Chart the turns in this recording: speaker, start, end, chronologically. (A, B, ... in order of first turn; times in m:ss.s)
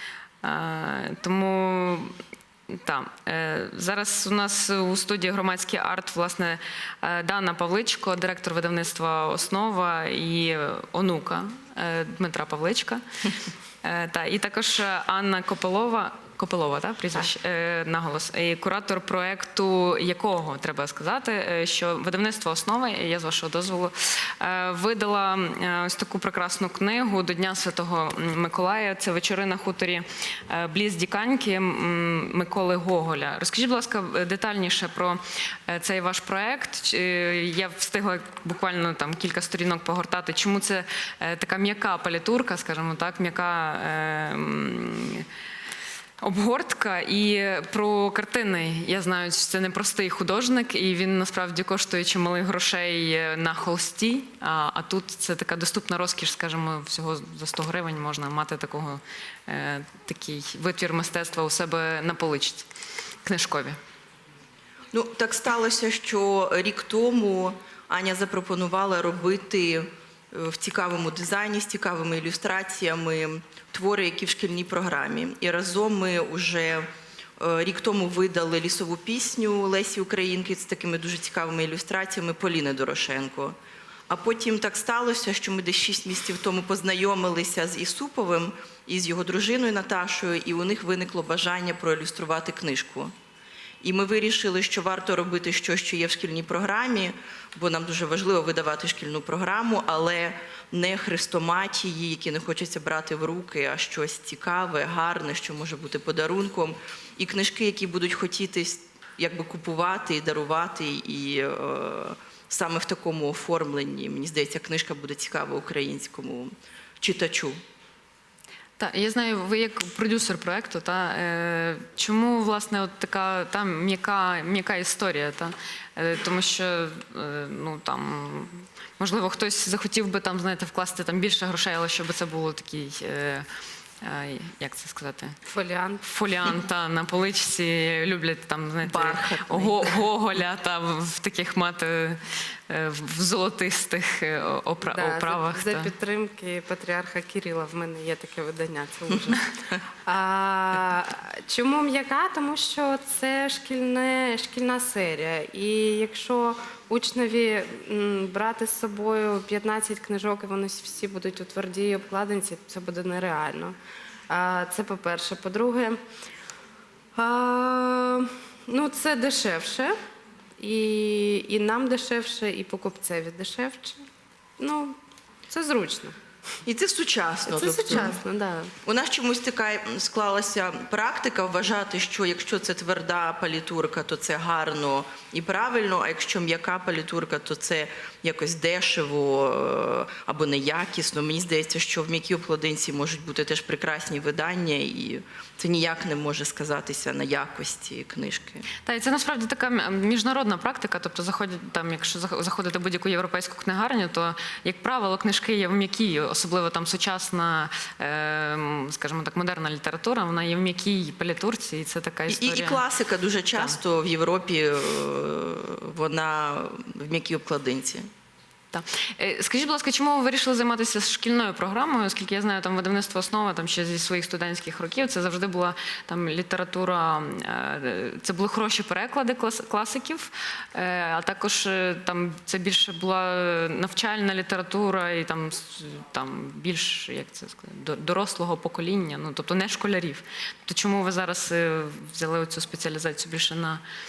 0:00.4-0:02.1 A
0:02.7-0:13.0 A
0:13.8-0:45.2 A
0:46.2-1:02.7 A
1:03.2-1:03.8 A
1:04.9-1:16.9 B
1:17.4-1:23.5 B
1:24.1-1:33.1 B
1:33.8-1:57.6 B
1:58.8-2:13.5 A
2:14.0-2:15.3 A
2:15.4-2:16.1 C
2:16.0-2:25.9 A
2:18.8-2:20.0 B
2:24.8-2:29.5 C
2:30.0-2:43.7 C
2:44.3-2:46.0 C
2:47.1-2:49.9 C
2:50.6-2:54.0 C
2:54.6-2:55.0 C
2:55.5-2:56.2 C
2:56.6-2:58.2 B
2:57.5-2:58.7 C
2:58.8-3:18.7 B
3:18.8-3:32.8 A
3:32.3-3:38.0 B
3:33.5-3:33.8 A
3:38.7-4:03.8 A